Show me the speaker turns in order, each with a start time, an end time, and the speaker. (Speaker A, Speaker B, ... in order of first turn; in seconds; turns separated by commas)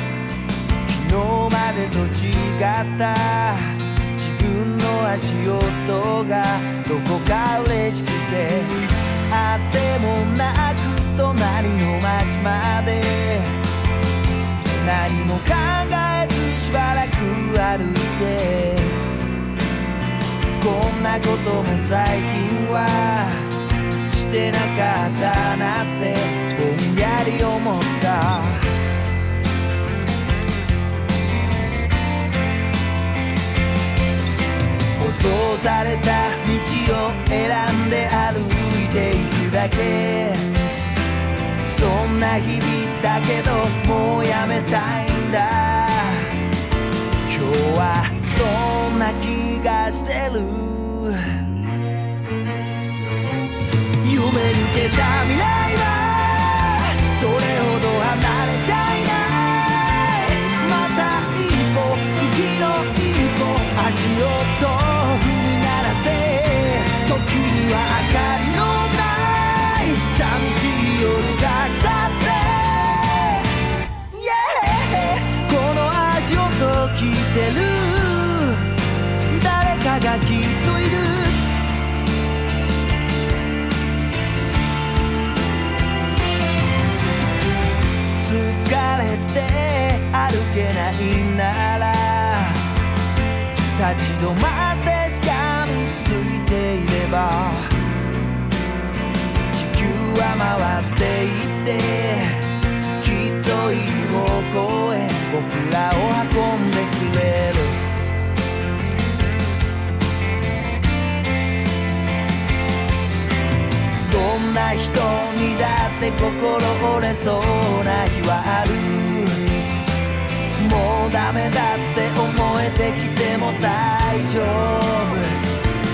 Speaker A: 0.9-13.6, Speaker A: 14.7-19.1, Speaker A: 20.6-23.6, Speaker A: 24.1-28.7, Speaker A: 35.0-40.6, Speaker A: 41.6-46.4, Speaker A: 47.3-51.4, Speaker A: 54.0-73.5, Speaker A: 74.1-78.7, Speaker A: 79.3-81.6, Speaker A: 88.2-92.7, Speaker A: 93.7-97.7, Speaker A: 99.5-102.5, Speaker A: 103.0-107.8, Speaker A: 114.0-119.6, Speaker A: 120.6-125.4